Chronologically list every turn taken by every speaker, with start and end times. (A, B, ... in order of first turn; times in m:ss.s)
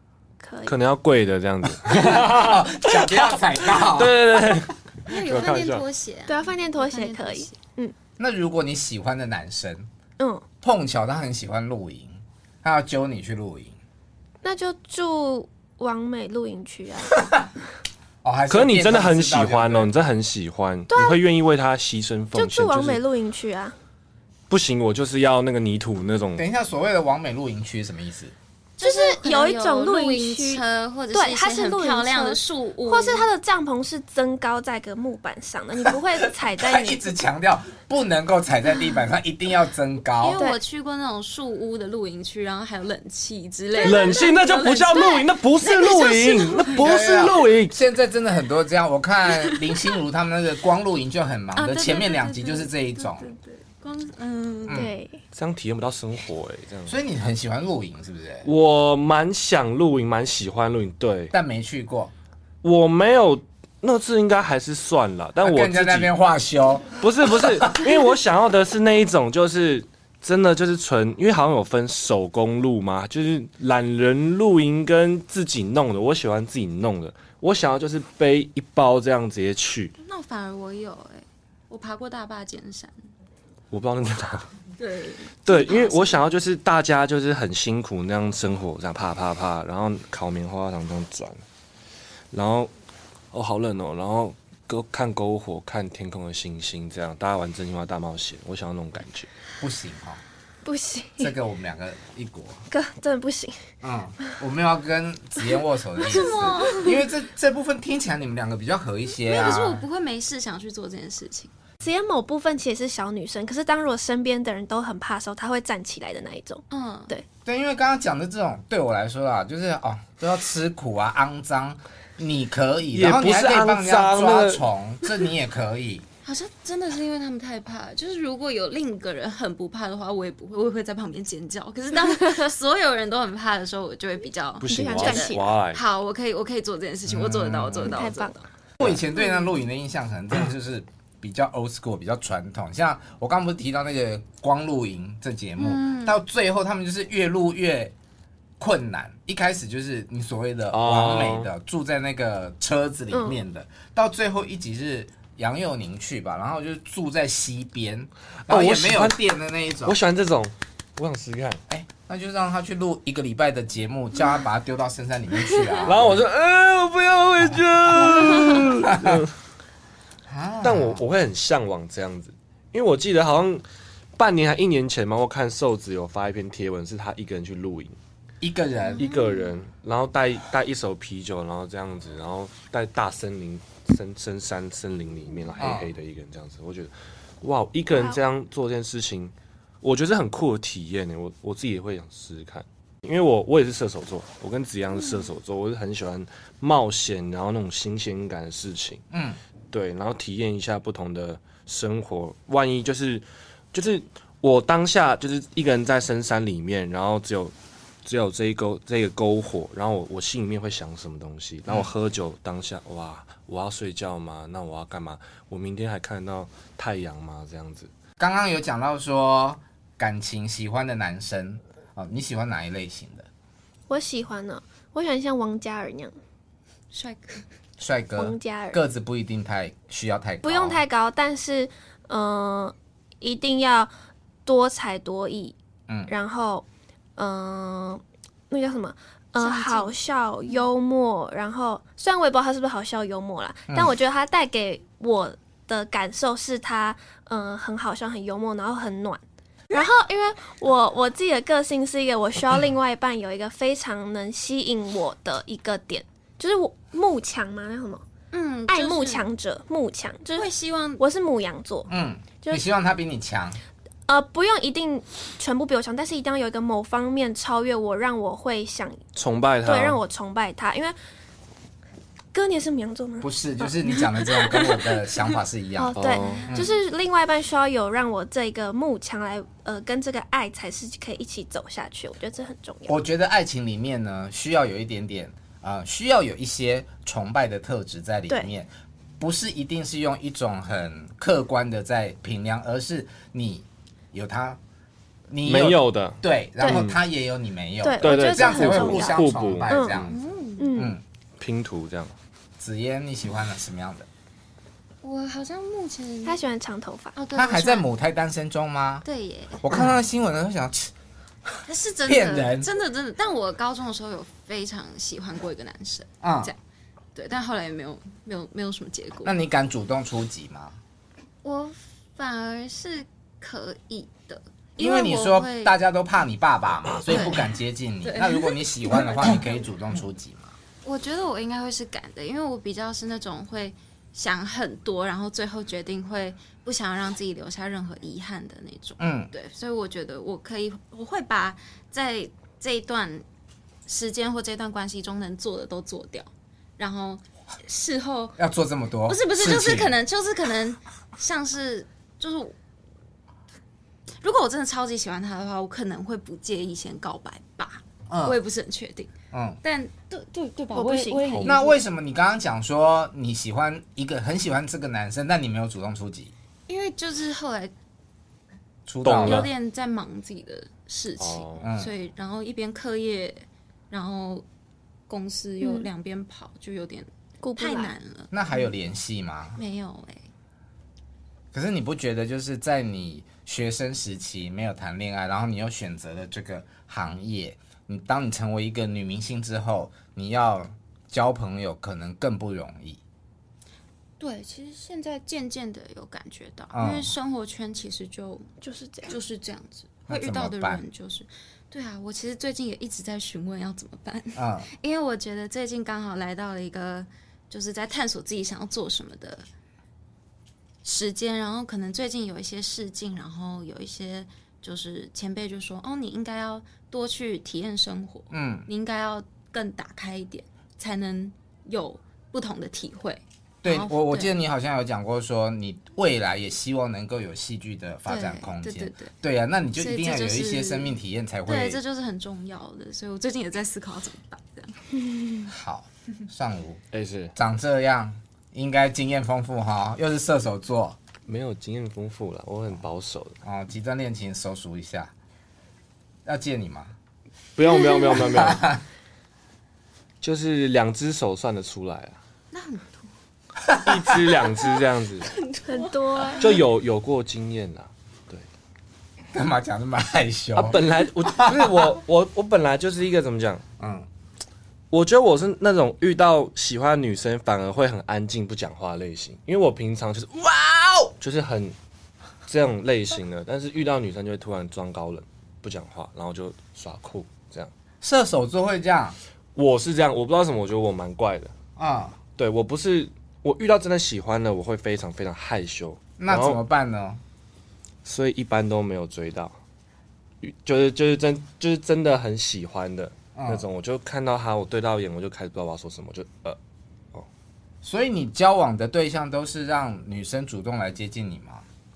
0:00.4-0:00.8 A
0:00.6-0:05.8 B
0:01.8-0:04.6 C
0:05.0-0:07.6 D
0:06.3-0:07.9 A
0:08.2-0:09.9 C
0:10.2-0:10.4 A
0:10.6-0:13.7 C
0:14.4-0:17.2 A
0:18.2-0:19.9 C
0:18.5-0:23.0 B
0:20.9-0:21.2 A
0:22.3-0:23.7 A
0:24.5-0:26.4 B
0:26.4-0:28.3 C
0:28.8-0:33.3 D
0:28.8-0:30.6 A
0:31.1-0:37.1 A
0:36.5-0:40.4 C
0:40.2-0:46.8 D
0:43.8-0:45.3 A
0:43.8-0:47.7 B
0:46.7-0:53.2 C
0:51.6-0:54.9 D
0:54.7-0:55.2 A
0:55.3-0:57.0 B
0:56.9-0:58.5 C
0:58.4-1:01.3 B
1:01.3-1:02.1 C
1:02.6-1:06.1 B
1:05.4-1:07.8 C
1:06.9-1:19.9 B
1:20.0-1:22.9 D
1:23.7-1:24.5 B
1:24.8-1:26.2 D
1:25.4-1:31.4 B
1:32.3-1:32.7 B
1:33.3-1:39.3 B
1:39.6-1:40.2 C
1:40.6-1:41.3 A
1:41.2-1:42.6 C
1:42.7-1:43.6 A
1:43.8-1:49.8 C
1:46.0-1:47.0 D
1:46.1-1:46.9 A
1:49.2-1:51.5 D
1:51.8-1:57.2 A
1:56.7-1:57.1 D
1:57.4-2:06.0 C
2:02.9-2:04.6 B
2:06.2-2:18.4 D
2:14.6-2:15.8 B
2:14.7-2:15.5 A
2:17.1-2:17.9 C
2:17.8-2:18.4 A
2:18.8-2:27.9 C
2:25.6-2:26.2 D
2:28.6-2:40.0 C
2:30.7-2:31.5 B
2:33.1-2:33.4 A
2:38.5-2:39.2 B
2:39.8-2:41.6 B
2:41.7-2:46.2 C
2:45.8-2:49.3 B
2:47.9-2:49.2 C
2:50.3-2:51.0 C
2:50.6-2:53.6 B
2:54.2-2:58.0 B
2:58.4-2:59.0 C
2:59.0-2:59.5 D
2:59.0-3:19.0 B
3:05.6-3:05.9 C
3:07.9-3:08.2 A
3:19.1-3:19.4 C
3:19.7-3:27.5 B
3:28.0-3:37.9 B
3:38.2-3:43.3 C
3:43.9-3:46.1 A
3:46.9-3:47.4 D
3:47.8-3:50.8 C
3:48.2-3:48.8 A
3:50.4-3:53.9 A
3:54.4-3:55.5 A
3:56.1-3:56.6 A
3:57.2-4:18.0 A
3:59.4-3:59.9 D
4:18.3-4:19.2 D
4:18.7-4:21.9 A
4:20.4-4:21.0 D
4:21.9-4:23.6 C
4:24.1-4:29.0 A
4:29.1-4:30.0 B
4:29.6-4:31.0 A
4:32.3-4:34.0 A
4:33.2-4:36.7 C
4:34.5-4:34.7 D
4:35.8-4:43.0 A
4:35.9-4:36.5 B
4:36.2-4:36.5 D
4:42.9-4:48.7 C
4:49.2-4:54.6 C
4:55.3-5:00.1 C
4:55.4-4:57.0 B
4:56.6-4:56.8 A
4:57.8-5:00.0 A
4:58.0-5:00.1 B
5:00.1-5:00.8 D
5:00.6-5:00.9 A
5:00.7-5:01.0 C
5:01.4-5:02.2 B
5:02.6-5:04.1 C
5:05.0-5:06.4 D
5:06.2-5:07.2 A
5:07.2-5:07.8 D
5:07.3-5:09.0 C
5:09.0-5:09.6 D
5:09.6-5:10.9 C
5:11.6-5:16.6 D
5:12.0-5:12.7 C
5:16.2-5:16.5 C
5:17.1-5:19.3 D
5:19.2-5:20.8 C
5:21.4-5:25.8 D
5:24.8-5:30.6 C
5:27.1-5:29.4 D
5:30.8-5:43.2 D
5:39.0-5:39.3 C
5:43.8-5:48.4 D
5:48.4-5:49.9 C
5:49.1-5:52.5 D
5:54.2-6:01.8 D
5:58.1-5:58.4 C
5:59.3-5:59.6 C
6:00.7-6:01.5 A
6:01.2-6:01.5 B
6:01.4-6:06.3 C
6:06.7-6:07.7 D
6:08.9-6:09.5 C
6:09.0-6:09.5 B
6:09.2-6:14.4 D
6:11.2-6:11.7 B
6:11.6-6:11.9 C
6:15.1-6:18.3 D
6:15.6-6:15.9 A
6:17.4-6:17.9 A
6:18.3-6:19.6 C
6:19.5-6:20.3 D
6:21.5-6:33.0 C
6:34.2-6:38.5 D
6:36.7-6:37.1 C
6:38.6-6:39.1 A
6:39.0-6:49.4 D
6:40.1-6:40.8 C
6:44.4-6:44.7 C
6:50.8-7:04.3 D
6:58.3-6:58.7 C
7:03.6-7:11.8 C
7:08.1-7:09.1 D
7:09.8-7:11.0 D
7:11.5-7:14.8 D
7:15.5-7:16.8 C
7:16.9-7:17.3 B
7:17.4-7:21.0 C
7:21.3-7:23.4 B
7:23.4-7:25.1 C
7:26.2-7:26.9 C
7:27.6-7:28.6 B
7:28.1-7:28.8 C
7:30.2-7:32.2 B
7:32.5-7:33.1 D
7:33.6-7:34.1 C
7:33.8-7:35.3 B
7:34.6-7:36.6 D
7:35.7-7:36.5 A
7:36.4-7:38.4 B
7:39.3-7:42.0 C
7:40.5-7:43.6 B
7:43.8-7:44.1 C
7:44.9-7:50.6 B
7:50.6-7:51.1 C
7:51.2-7:51.7 B
7:52.5-7:57.7 B
7:58.0-7:59.2 C
7:59.5-8:01.5 B
8:01.8-8:02.2 C
8:02.4-8:06.6 B
8:06.2-8:07.2 C
8:08.0-8:09.6 B
8:10.4-8:16.6 B
8:13.3-8:13.6 C
8:17.8-8:21.6 C